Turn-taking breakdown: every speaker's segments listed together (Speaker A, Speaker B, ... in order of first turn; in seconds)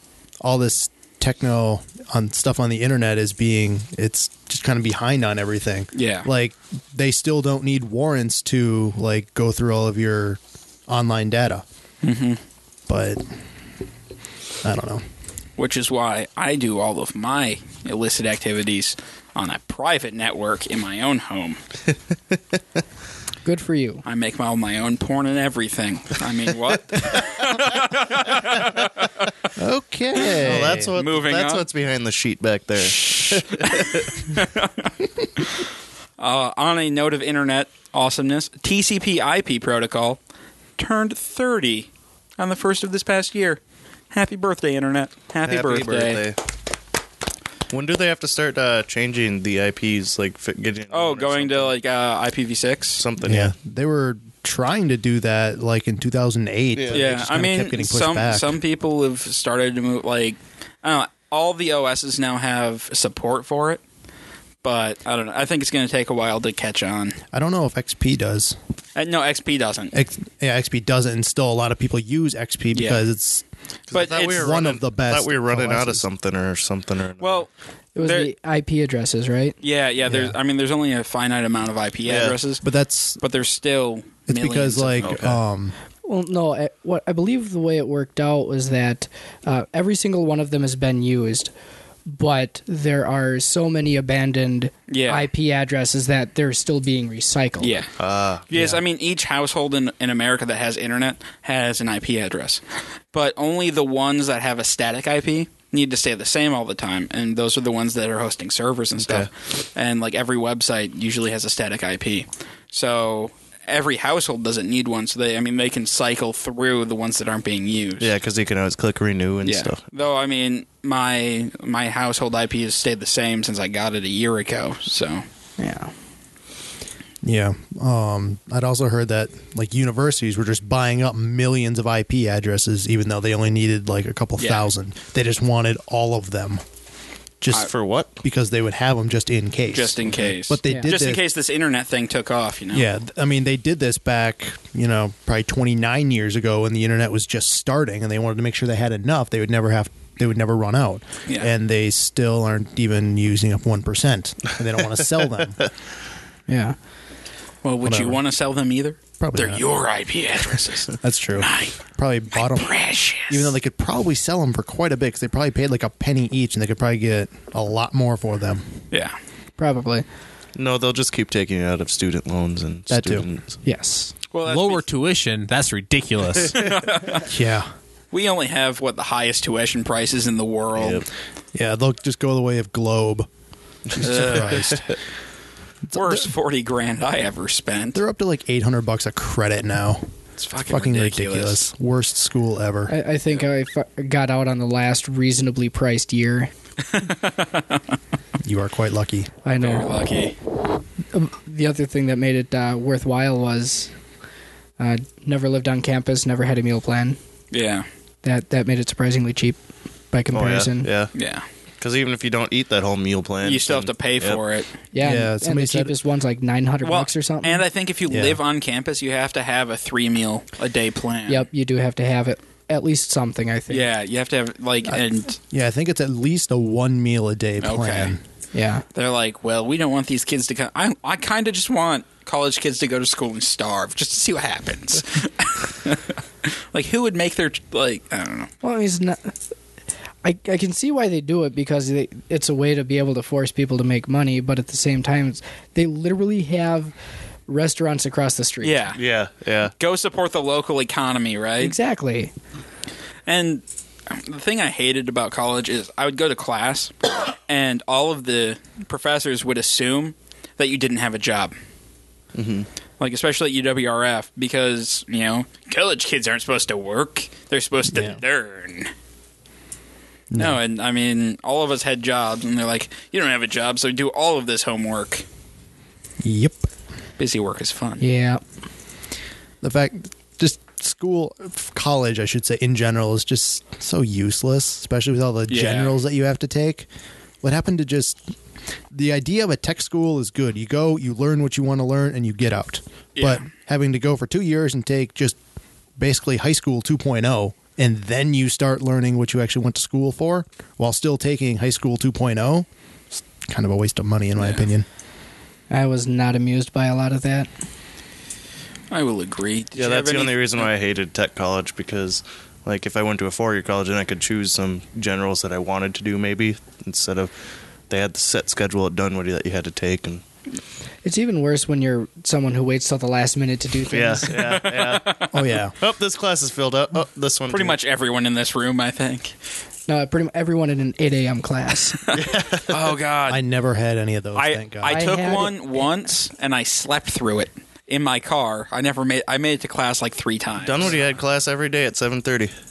Speaker A: 0.4-11.6, 12.9-13.2, 14.6-15.0, 29.6-30.9, 53.2-58.6, 67.3-68.6, 69.9-73.5, 74.2-76.0, 80.1-80.4, 82.6-83.2, 84.3-85.7, 98.5-98.8, 127.2-136.6, 137.4-137.7, 138.2-141.2, 142.7-155.6, 157.8-158.2, 159.2-159.6, 161.0-168.7, 172.9-173.3, 177.1-177.7, 181.5-183.3, 183.9-184.9, 185.9-186.3, 187.9-190.0, 190.6-192.9, 198.4-199.3, 215.0-215.9, 218.1-218.4, 224.9-228.2, 267.9-268.2, 270.3-270.6, 276.2-276.7, 279.6-286.9, 287.4-288.2, 288.9-295.4, 296.0-304.9, 325.3-325.8, 333.3-335.0
Speaker B: 5.9-6.3, 12.0-12.4, 15.6-21.6, 24.0-29.3, 30.2-31.6, 32.8-40.2, 40.8-46.2, 50.9-53.0, 56.9-63.8, 64.6-67.2, 69.0-70.0, 72.7-73.0, 73.9-74.7, 77.2-78.3, 79.6-82.6, 83.2-85.1, 94.9-95.3, 97.6-97.9, 98.5-102.6, 103.1-118.1, 119.4-125.2, 134.4-134.7, 139.7-142.9, 157.6-161.8, 162.4-163.5, 168.9-169.2, 174.3-174.8, 176.6-177.3, 178.1-181.1, 184.0-184.7, 185.9-188.0, 190.4-191.7, 196.9-197.8, 199.6-200.4, 207.5-207.9, 211.1-211.4, 213.4-214.8, 216.8-221.5, 223.7-225.4, 227.6-228.2, 228.9-238.5, 248.6-249.0, 249.8-251.8, 253.3-256.9, 257.5-261.5, 263.0-268.9, 270.4-275.2, 277.2-278.1, 285.5-286.0, 293.2-293.5, 304.4-304.7, 308.9-310.7, 324.3-325.3, 327.5-329.4, 332.7-333.4, 334.4-341.0
Speaker C: 23.4-24.0, 78.0-79.6, 86.0-91.5, 92.1-97.8, 125.6-125.9, 156.5-156.8, 169.6-170.1, 173.6-174.1, 192.9-196.5, 199.4-200.0, 201.1-203.9, 204.8-207.2, 208.2-209.6, 210.1-210.9, 214.9-217.7, 221.3-223.9, 228.5-228.9, 238.6-239.4, 240.2-246.9, 247.5-248.9, 251.6-252.3, 278.0-278.4, 305.7-307.5, 321.0-324.5, 329.9-332.1, 334.9-335.8
Speaker D: 29.6-34.3, 45.4-46.4, 47.7-51.7, 53.0-53.5, 56.8-57.0, 73.9-77.4, 82.0-82.4, 85.0-85.4, 98.0-98.5, 109.0-109.3, 118.0-119.8, 137.5-138.2, 170.6-173.6, 180.8-181.1, 184.0-184.8, 210.3-211.1, 211.8-214.4, 249.0-249.7, 262.4-262.7, 309.8-317.3, 317.9-320.2, 323.9-325.2, 325.8-327.8, 332.1-332.8, 340.6-342.5
Speaker E: 174.5-176.7